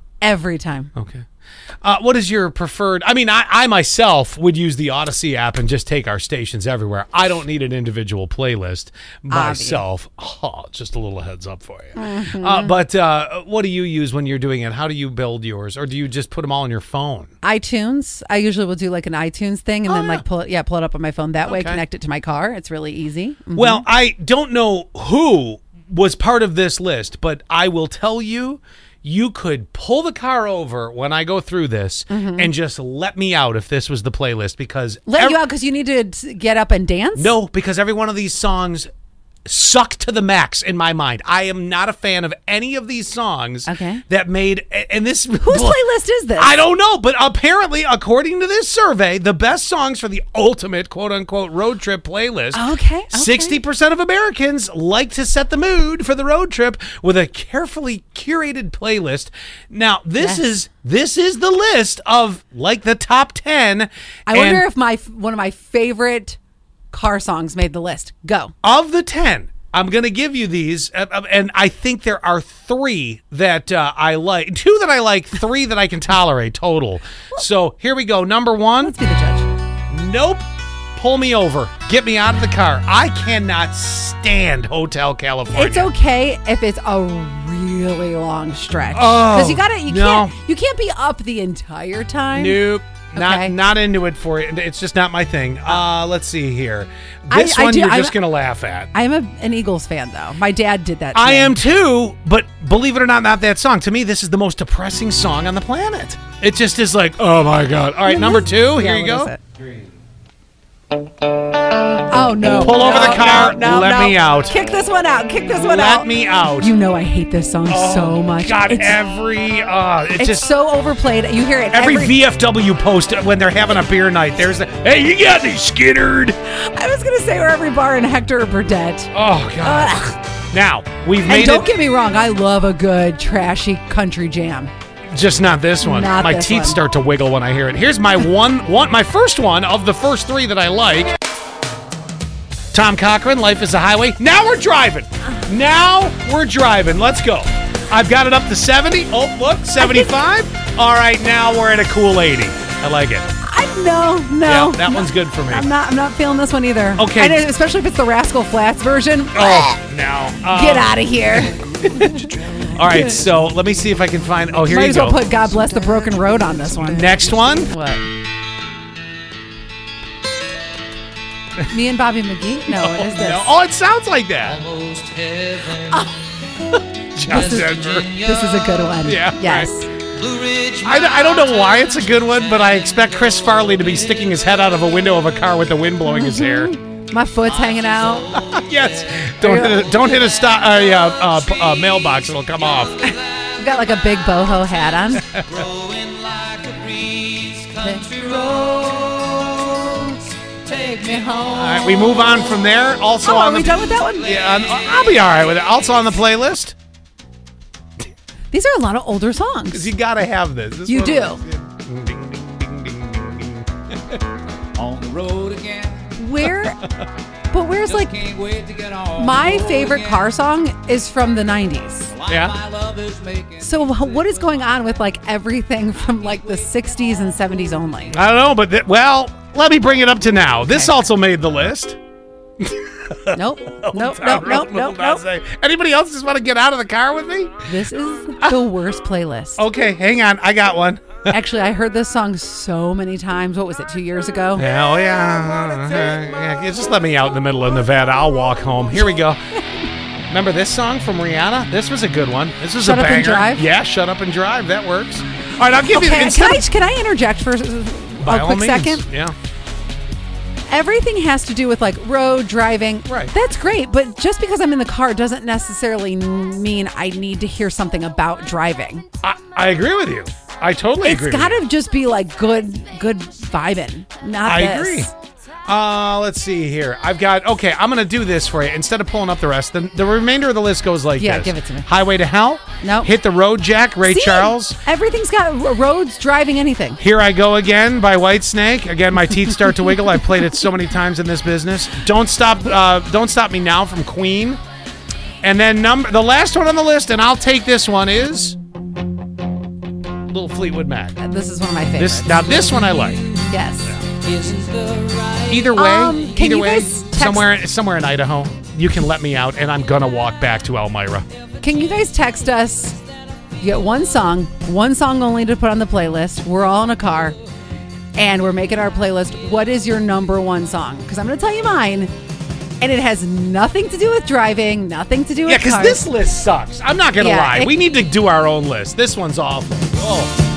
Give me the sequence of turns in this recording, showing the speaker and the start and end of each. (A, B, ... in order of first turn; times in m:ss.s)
0:00.2-0:00.9 A
0:01.0-0:01.3 B
0:01.8-0:17.3 B
0:09.3-0:09.8 A
0:12.0-0:12.8 A
0:17.4-0:23.8 A
0:19.9-0:20.2 B
0:21.5-0:21.8 B
0:23.6-0:35.4 B
0:32.1-0:32.5 A
0:35.1-0:37.3 A
0:37.2-0:38.9 B
0:39.5-0:45.8 B
0:43.7-0:44.0 A
0:45.4-0:46.6 A
0:46.4-0:52.6 B
0:52.5-0:53.6 A
0:53.1-1:04.6 B
1:00.2-1:00.5 A
1:04.3-1:06.4 A
1:06.9-1:08.5 A
1:08.6-1:18.9 B
1:18.8-1:19.5 A
1:19.9-1:20.4 B
1:21.0-1:25.9 B
1:25.5-1:32.6 A
1:28.9-1:30.3 B
1:32.3-1:38.9 B
1:33.1-1:33.6 A
1:37.3-1:38.2 A
1:38.9-1:41.6 A
1:41.2-1:49.3 B
1:48.0-1:49.4 A
1:52.1-1:59.0 A
1:52.6-1:54.5 B
1:55.6-1:56.7 B
1:57.7-2:00.5 B
2:00.2-2:02.2 A
2:01.7-2:06.4 B
2:06.5-2:10.2 A
2:09.1-2:11.7 B
2:11.3-2:14.7 A
2:15.1-2:21.1 B
2:15.8-2:16.8 A
2:22.7-2:33.3 B
2:29.8-2:30.1 A
2:33.4-2:39.8 A
2:34.4-2:35.7 B
2:37.0-2:37.4 B
2:39.4-2:45.4 B
2:40.5-2:42.3 A
2:44.7-2:48.1 A
2:46.8-2:47.7 B
2:51.7-2:53.6 A
2:52.8-2:54.7 B
2:54.7-2:55.8 C
2:55.7-2:56.2 A
2:56.7-2:58.2 B
2:57.2-2:59.9 A
2:59.0-2:59.7 B
3:00.3-3:00.8 C
3:00.7-3:06.7 B
3:06.0-3:08.4 A
3:08.3-3:13.2 B
3:09.4-3:09.8 A
3:13.5-3:15.4 A
3:15.3-3:15.6 B
3:15.5-3:17.8 C
3:17.7-3:20.1 A
3:18.7-3:19.4 C
3:20.6-3:22.5 A
3:21.6-3:26.8 B
3:23.2-3:24.5 A
3:28.5-3:29.9 A
3:29.7-3:34.2 B
3:30.9-3:31.4 A
3:34.8-3:36.1 C
3:36.2-3:36.8 A
3:37.5-3:38.3 A
3:38.2-3:39.2 C
3:39.1-3:42.2 A
3:42.3-3:42.6 B
3:42.6-3:43.6 C
3:43.5-3:48.2 A
3:48.1-3:52.0 B
3:52.6-3:57.6 B
3:53.3-3:55.2 A
3:57.7-3:59.6 A
3:59.6-4:01.3 B
4:01.3-4:04.6 A
4:04.6-4:09.4 B
4:10.3-4:16.6 B
4:12.8-4:13.7 A
4:15.9-4:19.1 A
4:18.2-4:19.4 B
4:20.7-4:29.0 A
4:23.1-4:23.3 B
4:29.2-4:31.6 B
4:31.0-4:35.1 A
4:34.4-4:35.1 B
4:35.7-4:44.8 B
4:41.2-4:41.9 A
4:42.8-4:43.1 A
4:44.0-4:47.0 A
4:47.0-4:54.6 B
4:55.4-4:58.6 B
5:00.3-5:01.2 B
5:01.2-5:02.5 A
5:02.0-5:03.3 B
5:03.5-5:03.9 A
5:04.2-5:05.5 C
5:05.5-5:11.3 B
5:05.7-5:07.5 A
5:11.6-5:13.0 A
5:13.6-5:17.4 A
5:18.2-5:22.1 A
5:22.8-5:26.1 A
5:25.5-5:30.3 B
5:27.2-5:27.8 A